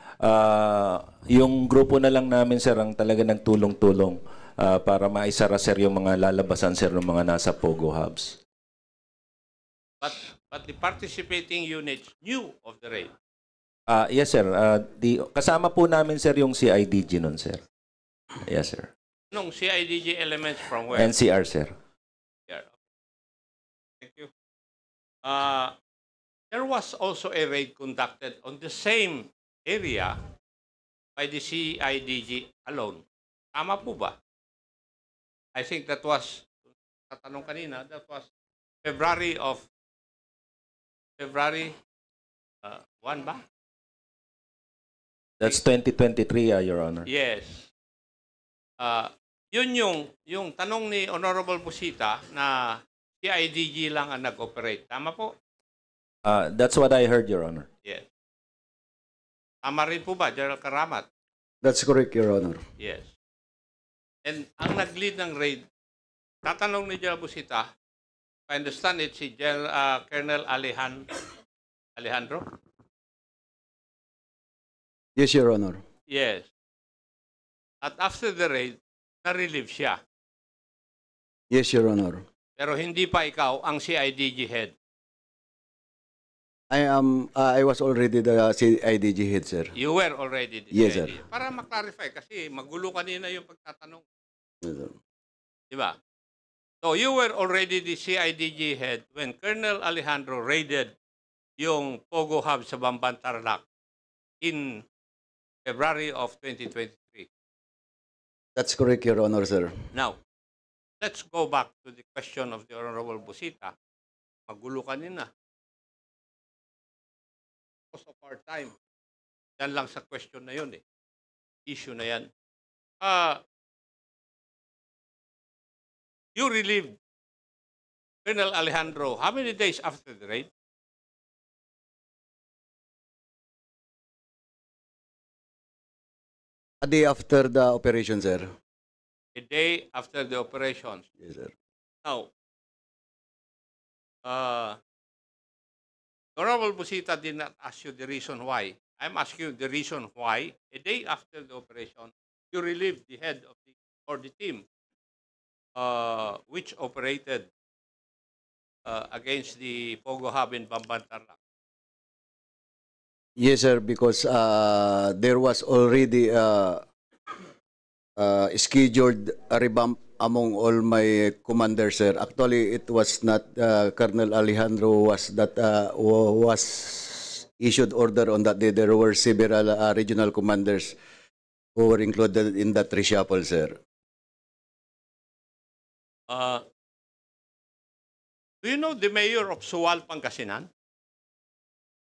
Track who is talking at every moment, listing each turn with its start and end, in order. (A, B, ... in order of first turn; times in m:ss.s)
0:00.2-0:08.4 A
0:10.0-0:13.1 B
0:13.9-0:17.6 A
0:18.4-0:18.9 A
0:19.3-0:21.1 B
0:20.9-0:21.7 A
0:22.5-0:22.8 B
0:24.0-0:24.3 B
0:25.2-0:25.8 B
0:26.5-0:30.2 B
0:31.2-0:33.0 B
0:33.5-0:34.2 B
0:35.6-0:36.6 B
0:37.1-0:38.3 B
0:38.8-0:39.7 B
0:41.2-0:41.8 B
0:42.6-0:43.4 B
0:45.4-0:47.1 A
0:47.1-0:47.7 B
0:48.8-0:55.3 B
0:56.2-0:57.7 A
0:59.6-1:01.1 B
1:01.6-1:02.6 C
1:02.8-1:03.1 B
1:04.2-1:05.6 B
1:06.4-1:07.7 B
1:08.5-1:11.2 B
1:12.0-1:12.4 B
1:15.2-1:15.8 C
1:16.1-1:16.5 B
1:17.8-1:20.0 B
1:21.5-1:22.2 C
1:22.6-1:24.7 B
1:26.7-1:29.7 C
1:29.8-1:34.0 B
1:30.7-1:31.2 C
1:34.6-1:34.9 C
1:35.7-1:36.0 B
1:36.8-1:40.9 B
1:41.6-1:43.6 B
1:44.4-1:44.8 B
1:45.6-1:47.3 B
1:48.6-1:49.7 C
1:51.0-1:53.7 B
1:54.5-1:55.3 B
1:57.9-1:58.8 B
1:59.6-2:00.8 B
2:01.7-2:02.3 B
2:03.0-2:03.4 B
2:06.4-2:06.9 B
2:08.2-2:10.5 B
2:16.8-2:18.5 C
2:19.3-2:21.0 B
2:21.2-2:21.5 C
2:24.2-2:24.8 B
2:26.4-2:34.6 B
2:35.8-2:37.5 B
2:38.8-2:41.4 B
2:43.4-2:46.8 C
2:48.2-3:01.0 C
3:01.8-3:03.8 C
3:06.3-3:06.6 B
3:08.6-3:10.7 B